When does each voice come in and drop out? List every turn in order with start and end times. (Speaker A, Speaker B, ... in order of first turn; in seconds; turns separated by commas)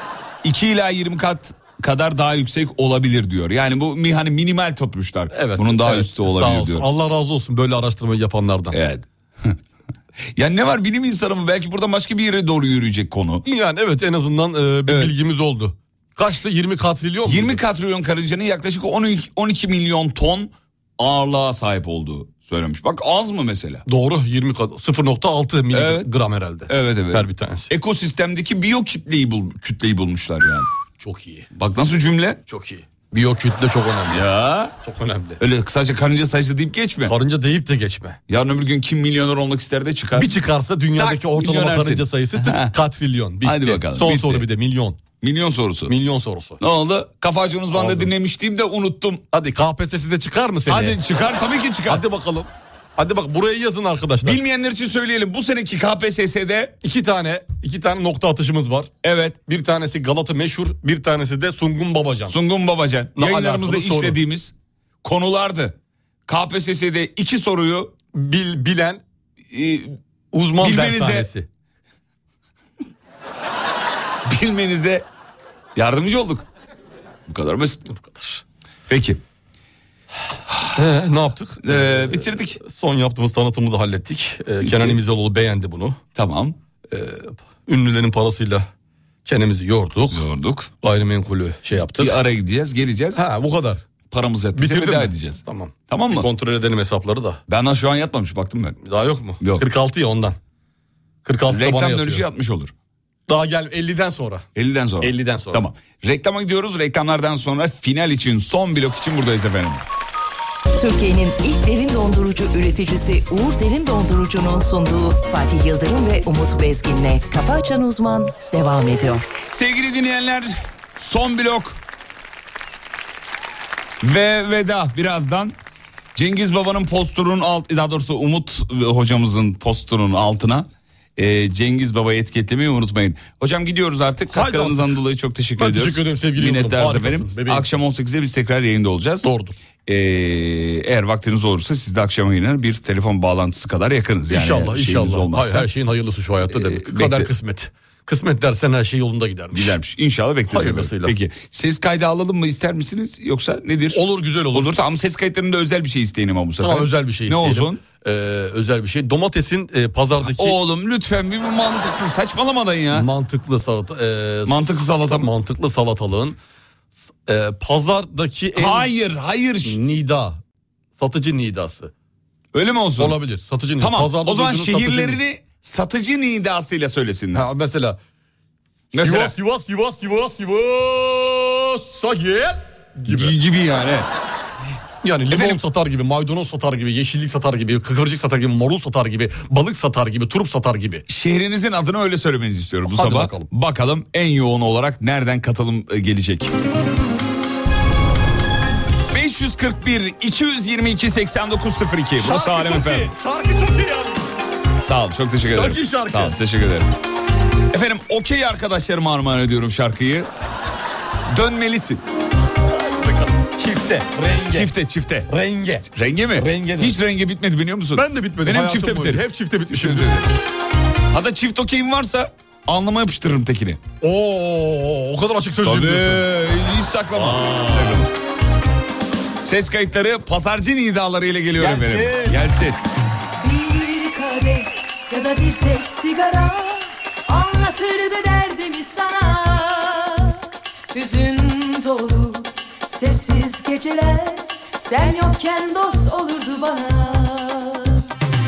Speaker A: 0.4-6.9, Speaker B: 5.3-8.8, Speaker A: 8.7-9.6, Speaker A: 10.3-13.4, Speaker B: 13.4-17.6, Speaker A: 14.9-15.1, Speaker A: 17.2-23.8, Speaker B: 23.9-27.7, Speaker A: 25.7-26.1, Speaker A: 26.7-30.7, Speaker B: 31.0-31.5, Speaker A: 31.5-32.4, Speaker B: 32.5-34.2, Speaker A: 34.1-34.7, Speaker B: 34.8-35.4, Speaker A: 35.4-37.1, Speaker B: 37.0-38.2, Speaker A: 38.3-40.3, Speaker B: 40.1-45.0, Speaker A: 41.0-42.7, Speaker A: 43.4-44.5, Speaker A: 45.2-45.9, Speaker B: 45.9-46.6, Speaker A: 46.6-49.2, Speaker B: 47.7-48.1, Speaker B: 49.3-51.0, Speaker A: 50.7-52.0, Speaker B: 51.9-54.4, Speaker A: 54.2-56.7, Speaker B: 56.8-58.9, Speaker A: 59.0-59.4, Speaker B: 59.5-62.3, Speaker A: 62.3-65.8, Speaker B: 63.1-64.2, Speaker A: 66.3-67.9, Speaker B: 68.1-69.0, Speaker A: 69.5-70.0, Speaker B: 70.3-71.5, Speaker A: 70.6-71.3, Speaker A: 74.2-75.0, Speaker A: 75.7-76.5, Speaker A: 77.3-77.8, Speaker B: 77.9-78.4, Speaker A: 78.9-79.2, Speaker B: 80.7-86.0, Speaker A: 81.6-82.6, Speaker A: 84.6-85.0, Speaker A: 86.1-86.5, Speaker B: 86.9-88.7, Speaker B: 89.2-90.3, Speaker A: 90.1-90.7, Speaker B: 90.8-92.2, Speaker A: 91.9-93.3, Speaker B: 93.1-93.8, Speaker A: 94.1-96.3, Speaker B: 94.5-97.4, Speaker A: 97.5-98.8, Speaker B: 98.8-100.4, Speaker A: 99.4-99.7, Speaker B: 101.2-102.2, Speaker A: 101.5-102.7, Speaker B: 103.3-104.5, Speaker A: 104.5-109.8, Speaker B: 105.0-105.6, Speaker C: 110.8-119.2, Speaker A: 119.5-121.8, Speaker A: 124.0-125.5, Speaker A: 126.1-139.3, Speaker B: 134.3-134.9, Speaker B: 135.6-137.7, Speaker B: 139.2-139.5, Speaker A: 139.8-145.7, Speaker B: 144.3-149.7, Speaker A: 146.5-147.3, Speaker A: 149.5-157.8, Speaker B: 150.5-151.1, Speaker B: 153.9-154.8, Speaker B: 156.6-160.6, Speaker A: 160.2-163.1, Speaker B: 162.9-166.4, Speaker A: 164.4-165.3, Speaker B: 167.2-168.9, Speaker A: 168.5-169.8, Speaker B: 169.6-170.4, Speaker B: 171.0-171.9, Speaker A: 172.5-173.2, Speaker B: 173.0-175.2, Speaker A: 173.8-177.5, Speaker B: 177.3-178.0, Speaker A: 178.9-179.3, Speaker B: 178.9-183.3, Speaker A: 183.1-184.1, Speaker B: 185.0-191.0, Speaker A: 185.3-185.6, Speaker A: 191.1-196.6, Speaker B: 192.9-193.5, Speaker A: 199.1-203.1, Speaker B: 202.2-204.4, Speaker A: 204.8-206.9, Speaker B: 205.5-206.3, Speaker A: 207.7-210.3, Speaker A: 211.3-212.0, Speaker B: 212.6-214.7, Speaker A: 214.3-215.3, Speaker B: 215.3-216.9, Speaker A: 215.9-220.3, Speaker B: 217.9-220.2, Speaker A: 221.1-223.8, Speaker B: 224.0-226.2, Speaker A: 225.6-228.1, Speaker B: 227.1-228.0, Speaker A: 229.4-232.8, Speaker B: 231.6-232.4, Speaker D: 233.4-248.1